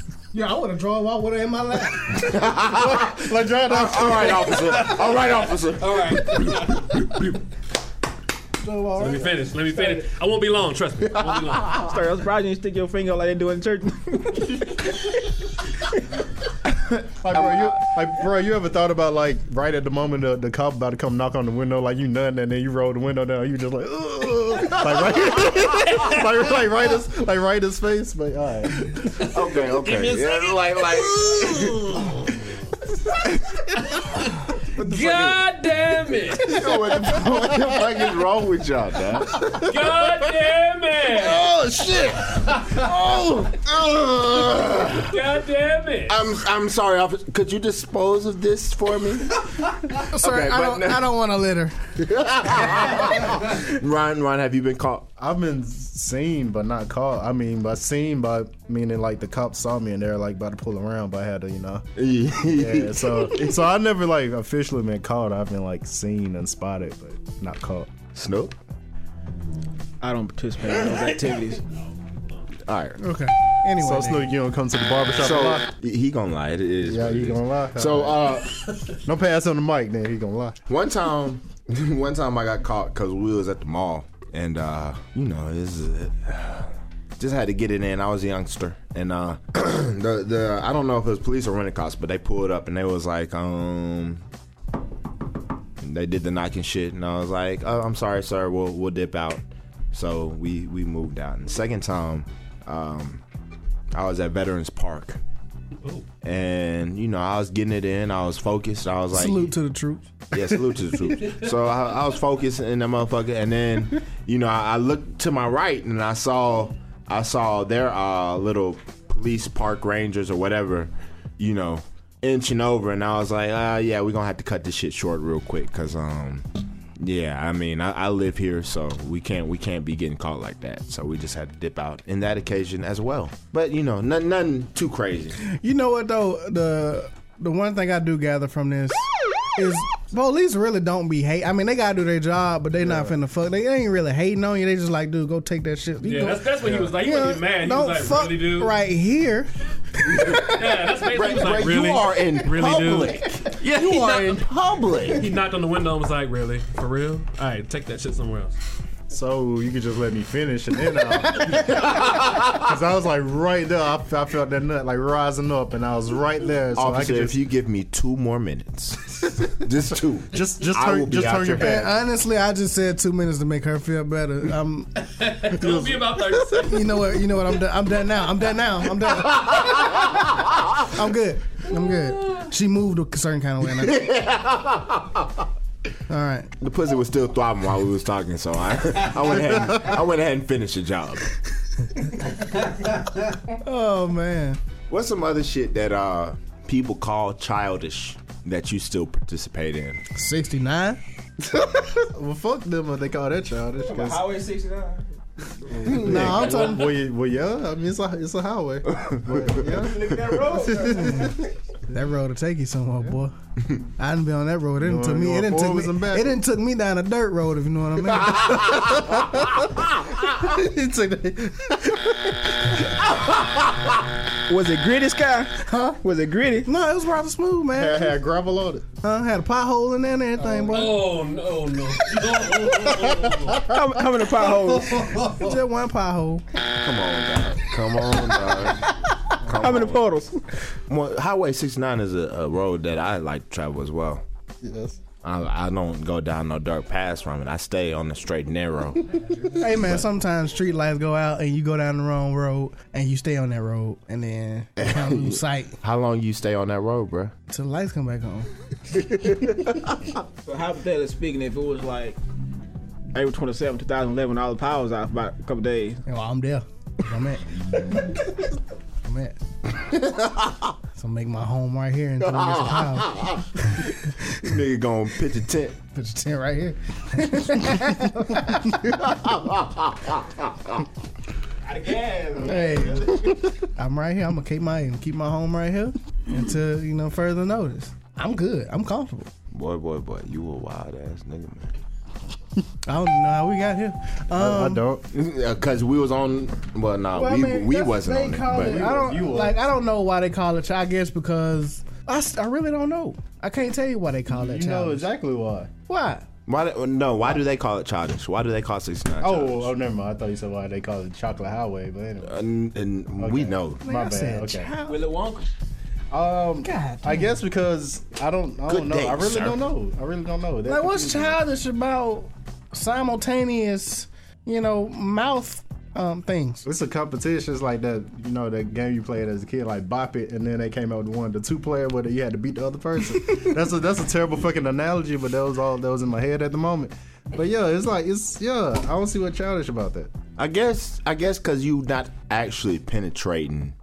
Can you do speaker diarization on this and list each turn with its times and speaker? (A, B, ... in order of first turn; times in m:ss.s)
0:00.3-0:02.2 A
0:02.1-0:07.0 B
0:02.6-0:04.7 C
0:05.8-0:07.2 D
0:08.6-0:09.9 A
0:09.0-0:11.8 D
0:11.8-0:15.3 E
0:16.8-0:17.7 B
0:17.2-0:29.0 C
0:29.1-0:32.1 B
0:29.6-0:32.2 D
0:34.8-0:35.4 B
0:34.8-0:36.6 D
0:36.4-0:39.7 B
0:36.6-0:37.8 C
0:39.6-0:41.4 D
0:41.2-0:45.2 B
0:41.4-0:42.0 C
0:45.0-0:46.2 D
0:46.1-0:51.1 B
0:49.9-0:51.8 A
0:52.0-0:55.1 B
0:55.2-1:01.9 C
1:02.0-1:03.6 B
1:02.4-1:07.9 C
1:08.2-1:08.6 B
1:10.0-1:11.6 E
1:12.7-1:13.0 B
1:13.0-1:14.3 A
1:13.8-1:15.7 C
1:15.2-1:18.7 B
1:16.8-1:18.3 C
1:19.0-1:20.6 C
1:20.7-1:34.2 B
1:35.8-1:43.2 B
1:43.9-1:45.2 B
1:46.2-1:49.5 B
1:49.1-1:50.0 A
1:50.3-2:06.5 B
2:07.0-2:15.4 B
2:15.4-2:19.0 A
2:19.6-2:29.5 A
2:22.8-2:23.2 C
2:26.0-2:28.8 D
2:26.6-2:26.9 C
2:30.0-2:30.4 A
2:30.1-2:35.3 B
2:30.3-2:34.4 D
2:35.1-2:38.6 D
2:39.1-2:42.0 C
2:41.4-2:42.7 B
2:42.5-2:47.4 C
2:46.8-2:51.9 B
2:50.3-2:51.9 C
2:51.6-2:54.9 A
2:55.0-2:57.0 D
2:55.5-2:56.4 C
2:56.6-2:59.6 A
2:59.3-3:00.3 B
3:00.8-3:04.1 A
3:03.6-3:05.5 B
3:06.1-3:06.5 A
3:06.6-3:11.4 B
3:13.6-3:14.6 A
3:14.9-3:20.0 B
3:20.1-3:21.0 A
3:22.1-3:24.2 C
3:23.8-3:26.3 E
3:25.8-3:31.3 C
3:25.9-3:26.6 B
3:25.9-3:26.9 A
3:28.9-3:29.5 B
3:29.6-3:31.3 E
3:30.8-3:33.4 A
3:34.0-3:38.6 A
3:34.8-3:36.4 C
3:38.3-3:39.1 B
3:38.7-3:39.6 C
3:40.3-3:42.8 C
3:43.0-3:43.9 B
3:44.5-3:46.7 E
3:46.6-3:48.2 A
3:47.7-3:48.8 C
3:49.0-3:51.0 A
3:50.4-3:50.9 C
3:50.7-3:53.7 D
3:52.7-3:53.6 C
3:53.7-3:55.2 E
3:55.2-3:56.4 A
3:56.8-3:58.9 B
3:59.4-4:00.1 B
3:59.6-4:00.4 E
4:00.9-4:04.2 B
4:04.6-4:05.0 C
4:05.2-4:10.0 B
4:09.6-4:15.8 A
4:14.8-4:17.3 B
4:17.5-4:18.5 A
4:18.9-4:20.0 B
4:20.4-4:22.2 E
4:23.1-4:26.0 E
4:26.1-4:28.2 A
4:29.0-4:29.4 A
4:29.9-4:30.7 B
4:31.0-4:33.1 A
4:32.2-4:35.8 B
4:35.9-4:38.9 A
4:38.8-4:40.9 B
4:41.6-4:43.5 E
4:42.4-4:49.3 A
4:49.5-4:51.7 B
4:52.9-4:54.8 A
4:54.3-4:55.0 C
4:55.1-4:58.8 B
4:57.1-5:05.1 A
4:58.5-4:59.6 C
5:04.3-5:05.7 C
5:05.9-5:06.3 A
5:06.5-5:09.7 B
5:09.2-5:12.3 C
5:12.2-5:13.8 B
5:13.2-5:14.7 C
5:13.8-5:15.0 A
5:14.8-5:15.5 E
5:16.1-5:21.4 C
5:16.6-5:17.4 A
5:18.7-5:19.6 B
5:20.7-5:26.6 A
5:26.6-5:40.1 C
5:40.4-5:43.8 B